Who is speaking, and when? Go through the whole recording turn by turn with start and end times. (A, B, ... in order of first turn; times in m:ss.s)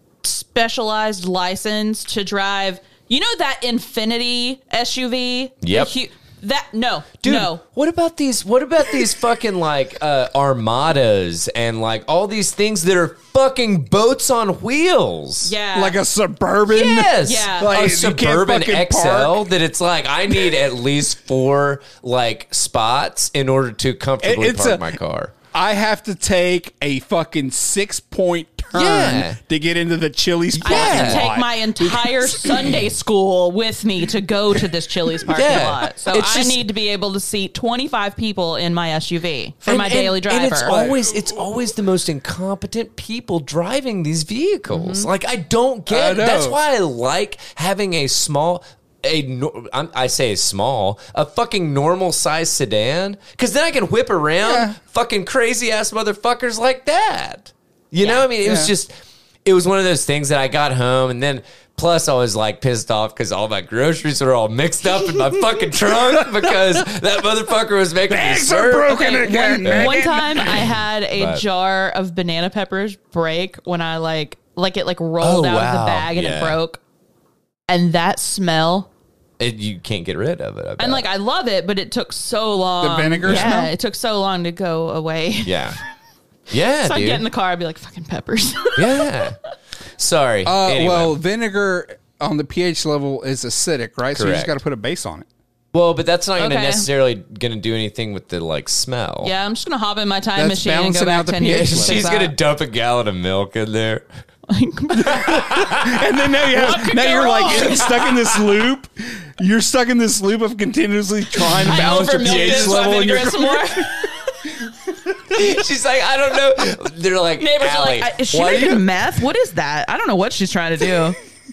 0:00.2-0:07.6 A
0:05.6-0:05.9 B
0:07.2-0:15.5 B
0:15.4-0:16.0 A
0:15.7-0:19.4 C
0:16.7-0:25.3 B
0:16.8-0:17.7 A
0:24.2-0:25.0 C
0:25.5-0:32.8 C
0:28.7-0:29.4 B
0:30.6-0:31.3 B
0:30.6-0:40.7 A
0:35.2-0:36.6 B
0:39.6-1:09.0 B
0:40.6-0:41.4 C
0:44.7-0:45.1 A
0:45.9-0:46.6 C
0:54.4-0:54.7 C
0:58.4-0:58.7 C
1:06.1-1:06.8 C
1:08.1-1:10.6 C
1:08.9-1:16.8 A
1:09.6-1:11.4 B
1:15.2-1:16.6 B
1:17.7-1:18.9 A
1:19.4-1:21.0 B
1:20.8-1:25.7 A
1:22.8-1:23.7 C
1:23.2-1:23.6 B
1:25.4-1:25.8 B
1:26.5-1:27.2 B
1:26.8-1:29.3 A
1:28.8-1:29.4 B
1:30.0-1:31.1 B
1:30.4-1:35.3 C
1:34.1-1:34.6 B
1:35.7-1:39.3 B
1:36.4-1:36.9 A
1:39.2-1:42.3 A
1:40.4-1:42.0 C
1:41.4-1:44.0 B
1:44.5-1:45.5 A
1:44.9-1:54.0 C
1:45.0-1:46.0 B
1:46.4-1:48.2 A
1:47.5-1:48.2 B
1:51.5-1:53.2 B
1:51.6-1:54.1 A
1:55.2-1:58.8 B
1:57.4-2:01.2 A